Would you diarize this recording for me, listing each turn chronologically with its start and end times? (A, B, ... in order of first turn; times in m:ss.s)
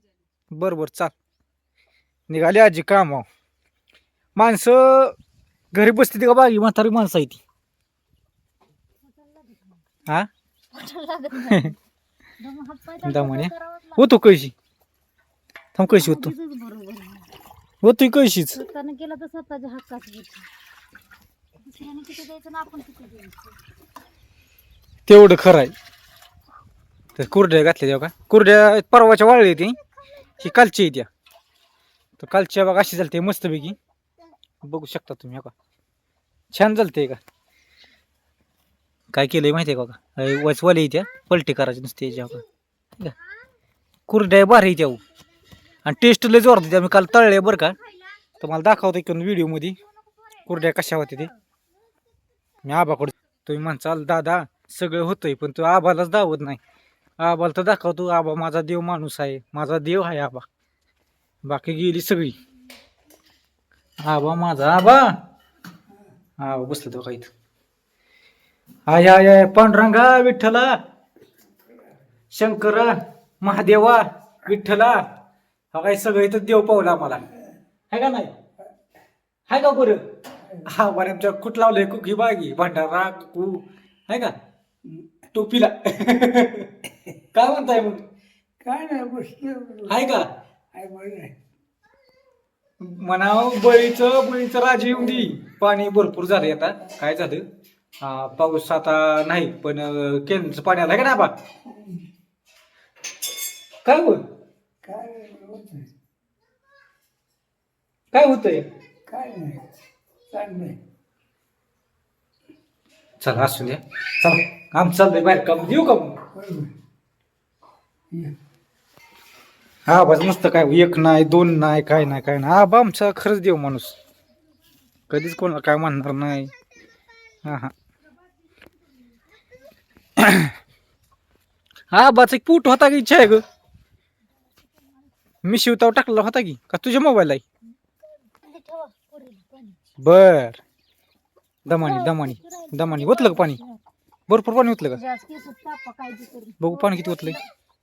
0:00.5-0:01.1 A
0:02.3-0:03.3 A
0:04.4-0:05.2 A
0:05.7-0:07.4 A
0:09.0-0:09.8 B
0:10.7-0:11.8 B
0:11.5-0:11.7 A
0:12.4-0:14.1 B
0:13.0-0:14.5 A
0:15.8-0:16.3 A
0:15.9-0:17.3 B
0:17.8-0:18.6 A
0:18.6-0:20.5 B
0:21.6-0:23.6 B
0:25.1-0:25.7 A
0:27.2-0:29.8 A
0:30.4-0:31.1 A
0:32.2-0:33.8 A
0:34.6-0:35.5 A
0:36.5-0:37.2 A
0:39.1-0:42.4 A
0:44.1-0:45.0 A
0:45.8-0:47.8 A
0:47.8-0:48.2 B
0:48.4-0:49.8 A
0:50.1-0:51.3 B
0:50.4-0:51.3 A
0:52.6-0:56.6 A
0:57.2-1:00.5 A
1:01.4-1:02.4 A
1:04.0-1:05.2 A
1:06.4-1:07.3 A
1:08.9-1:10.8 A
1:12.3-1:15.0 A
1:15.7-1:17.2 A
1:17.9-1:18.3 A
1:19.5-1:20.0 A
1:20.6-1:24.3 A
1:25.3-1:26.7 A
1:27.3-1:28.0 A
1:28.7-1:29.6 C
1:29.8-1:30.3 A
1:30.8-1:31.2 C
1:32.8-1:37.4 A
1:38.0-1:41.3 A
1:43.8-1:44.2 A
1:44.9-1:45.7 C
1:48.1-1:48.7 A
1:49.1-1:49.6 C
1:50.3-1:50.8 C
1:53.2-1:56.2 A
1:59.8-2:04.0 A
2:05.1-2:06.5 A
2:07.4-2:07.7 A
2:10.2-2:10.5 A
2:11.9-2:13.4 A
2:15.4-2:17.4 A
2:18.4-2:19.8 B
2:20.0-2:20.6 A
2:21.7-2:23.6 A
2:21.8-2:23.8 B
2:24.3-2:25.0 A
2:25.0-2:27.4 B
2:26.6-2:27.4 A